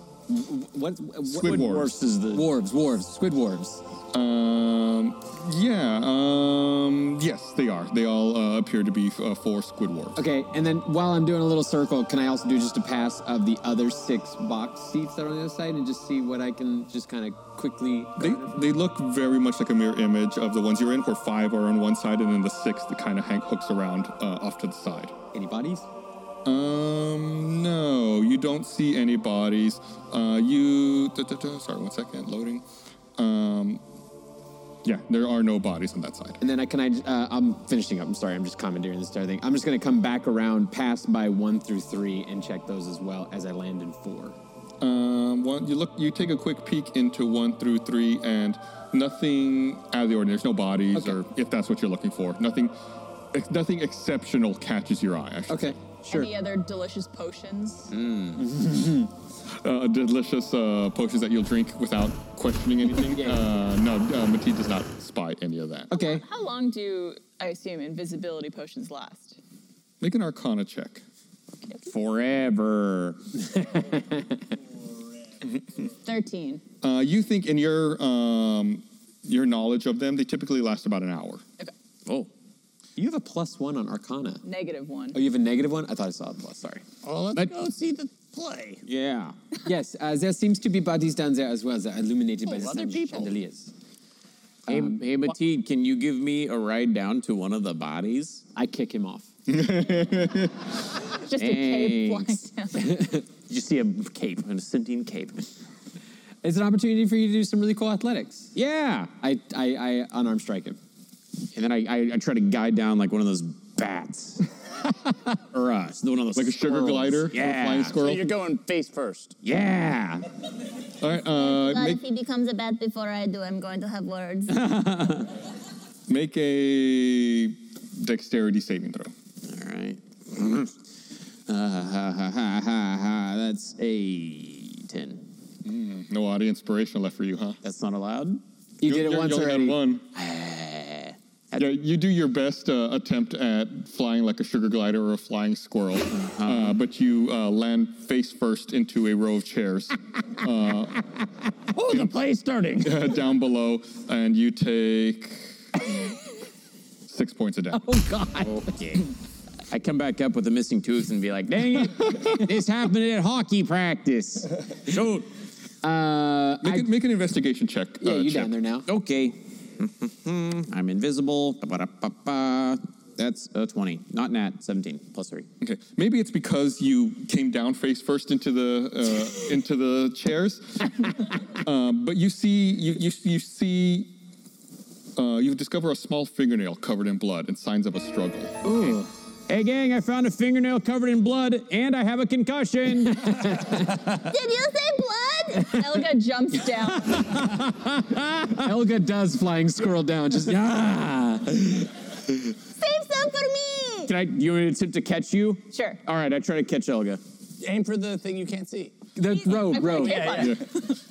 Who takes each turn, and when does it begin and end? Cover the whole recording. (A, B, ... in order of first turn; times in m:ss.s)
0:00.3-0:03.8 A
0:01.2-0:01.9 B
0:01.4-0:02.5 C
0:04.1-0:10.2 B
0:10.2-0:18.6 A
0:18.2-0:25.1 B
0:25.3-0:25.8 A
0:26.4-0:32.6 B
0:33.2-0:33.8 B
0:34.8-0:36.4 B
0:36.4-0:44.4 A
0:44.8-0:52.7 B
0:50.9-0:51.2 A
0:53.3-0:55.8 B
0:55.5-0:56.3 A
0:56.0-0:57.9 D
0:57.9-0:58.4 C
0:58.4-0:59.1 A
0:59.6-1:05.9 B
1:02.9-1:03.5 A
1:05.9-1:06.2 A
1:05.9-1:09.4 D
1:10.0-1:11.0 B
1:11.8-1:13.2 C
1:13.6-1:14.2 A
1:16.0-1:16.6 D
1:16.8-1:21.4 B
1:23.0-1:24.4 A
1:24.4-1:25.2 D
1:25.1-1:26.8 A
1:27.0-1:28.8 E
1:28.8-1:29.4 C
1:29.6-1:33.7 A
1:32.4-1:33.3 E
1:34.7-1:35.0 A
1:34.7-1:38.4 C
1:38.5-1:39.3 A
1:39.5-1:40.7 B
1:41.1-1:43.0 D
1:41.3-1:42.4 C
1:43.5-1:45.5 C
1:46.4-1:48.5 A
1:48.5-1:49.1 C
1:49.2-1:50.8 A
1:51.5-1:54.4 C
1:55.2-1:58.0 C
1:56.4-1:58.3 B
1:58.0-1:59.3 E
1:59.4-2:00.3 C
2:01.0-2:02.0 B
2:01.3-2:04.6 F
2:04.5-2:05.3 C
2:06.1-2:09.1 B
2:09.4-2:10.7 C
2:11.5-2:15.2 C
2:15.6-2:17.6 B
2:17.6-2:18.4 C
2:18.8-2:19.8 A
2:18.8-2:20.0 B
2:20.1-2:21.8 C
2:21.6-2:31.1 B
2:26.1-2:26.8 C
2:31.7-2:33.1 E
2:32.8-2:35.4 B
2:37.1-2:37.8 B
2:37.7-2:38.6 A
2:38.4-2:39.1 C
2:39.7-2:45.3 C
2:45.8-2:46.9 A
2:46.6-2:48.5 B
2:48.0-2:48.8 A
2:48.8-2:55.4 C
2:55.6-3:04.1 B
3:05.2-3:09.0 B
3:08.6-3:09.1 A
3:09.5-3:13.3 C
3:13.0-3:14.0 A
3:14.2-3:15.8 F
3:15.6-3:17.2 D
3:17.2-3:18.6 C
3:18.5-3:20.6 A
3:20.4-3:21.8 C
3:22.8-3:24.1 F
3:24.1-3:27.2 C
3:25.7-3:26.0 D
3:27.6-3:28.9 E
3:29.2-3:30.4 A
3:29.2-3:30.9 D
3:30.0-3:30.5 E
3:30.4-3:30.6 B